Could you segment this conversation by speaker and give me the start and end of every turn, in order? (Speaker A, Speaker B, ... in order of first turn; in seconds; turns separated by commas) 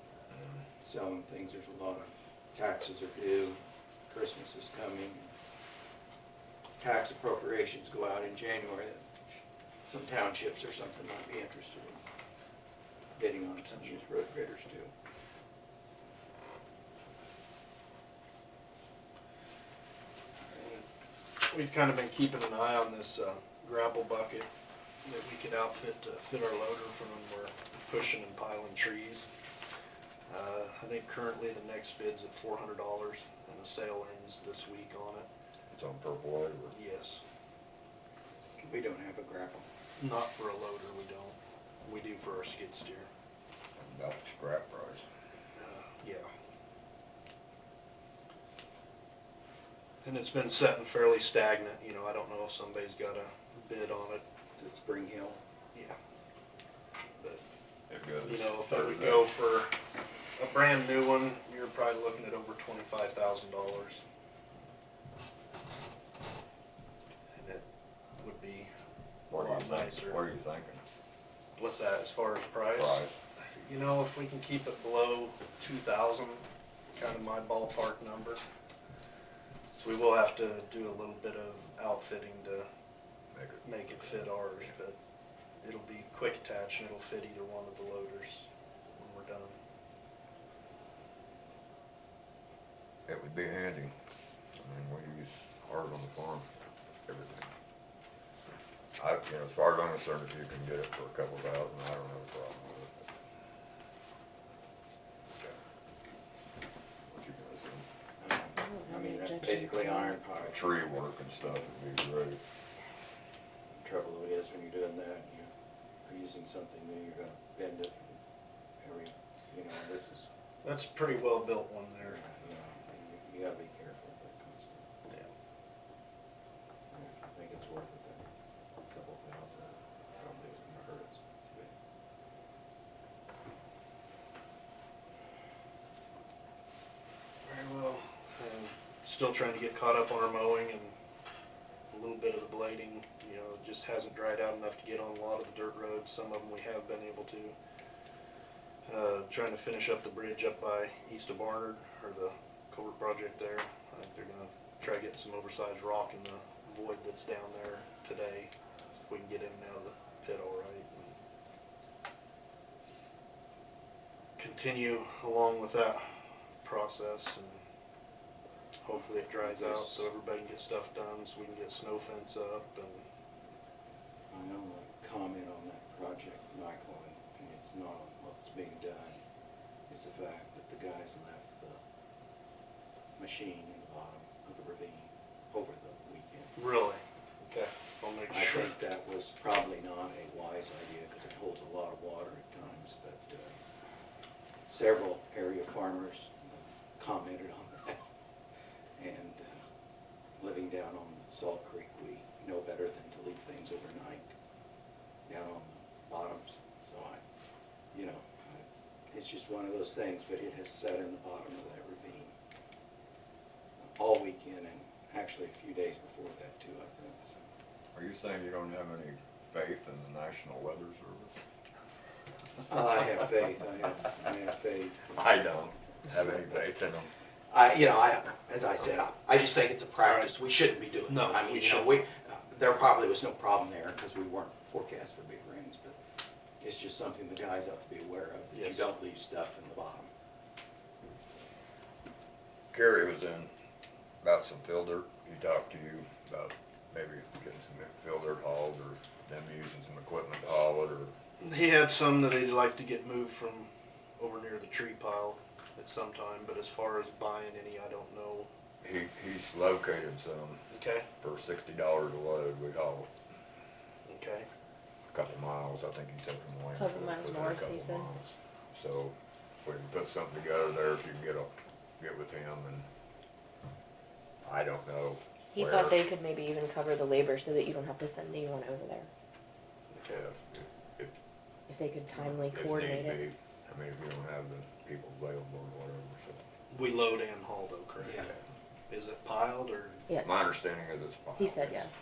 Speaker A: 0.3-0.6, Speaker B: 0.8-5.3, Speaker B: 6.8-12.0, Speaker B: 13.2-14.9, Speaker C: 21.5-24.5, Speaker C: 25.1-29.3, Speaker C: 30.3-35.3, Speaker A: 35.7-36.8, Speaker C: 36.7-37.2, Speaker B: 38.6-39.7, Speaker C: 40.0-43.1, Speaker A: 43.8-45.0, Speaker C: 45.6-46.3, Speaker C: 50.0-54.2, Speaker B: 54.6-55.4, Speaker A: 57.9-59.3, Speaker C: 58.2-59.7, Speaker C: 60.4-64.0, Speaker C: 67.4-67.6, Speaker C: 68.2-68.7, Speaker C: 69.3-70.2, Speaker A: 69.3-70.8, Speaker C: 71.6-73.0, Speaker A: 72.7-73.1, Speaker C: 73.6-78.4, Speaker C: 79.8-82.7, Speaker A: 83.3-84.8, Speaker C: 83.6-85.0, Speaker C: 85.6-89.5, Speaker A: 93.1-93.9, Speaker A: 94.6-96.5, Speaker A: 97.1-97.5, Speaker A: 99.0-103.1, Speaker A: 107.1-107.8, Speaker B: 108.2-111.0, Speaker D: 108.6-110.2, Speaker A: 110.4-112.4, Speaker B: 113.8-115.5, Speaker B: 116.0-118.2, Speaker B: 118.8-120.3, Speaker C: 120.6-122.2, Speaker B: 122.0-124.9, Speaker B: 126.9-128.3, Speaker B: 128.9-131.7, Speaker C: 137.4-140.9, Speaker C: 141.9-147.6, Speaker C: 148.9-158.5, Speaker C: 159.1-161.1, Speaker C: 164.4-166.0, Speaker C: 166.6-167.6, Speaker C: 168.8-173.0, Speaker B: 169.4-170.1, Speaker B: 174.3-179.2, Speaker B: 179.9-181.8, Speaker B: 183.2-186.6, Speaker C: 186.6-188.7, Speaker B: 188.3-193.6, Speaker B: 194.7-198.0, Speaker B: 199.0-199.6, Speaker B: 200.4-204.3, Speaker B: 205.3-207.2, Speaker B: 207.9-212.3, Speaker B: 213.9-217.4, Speaker A: 217.9-221.4, Speaker B: 222.7-225.1, Speaker A: 225.1-227.1, Speaker B: 227.5-236.0, Speaker C: 231.1-232.0, Speaker B: 236.6-240.1, Speaker C: 238.5-238.9, Speaker A: 242.7-243.5, Speaker A: 244.2-251.1, Speaker C: 251.4-258.5, Speaker A: 258.8-260.7, Speaker C: 260.7-261.1, Speaker A: 261.2-263.1, Speaker C: 264.1-264.5, Speaker A: 265.1-272.9, Speaker D: 266.8-268.1, Speaker A: 274.4-276.0, Speaker D: 275.5-279.1, Speaker C: 279.9-280.2, Speaker A: 280.0-281.1, Speaker D: 281.7-283.2, Speaker A: 282.4-286.4, Speaker C: 286.7-288.3, Speaker B: 288.0-288.4, Speaker C: 288.9-290.1, Speaker D: 290.1-290.5, Speaker A: 290.2-291.9, Speaker D: 291.4-291.9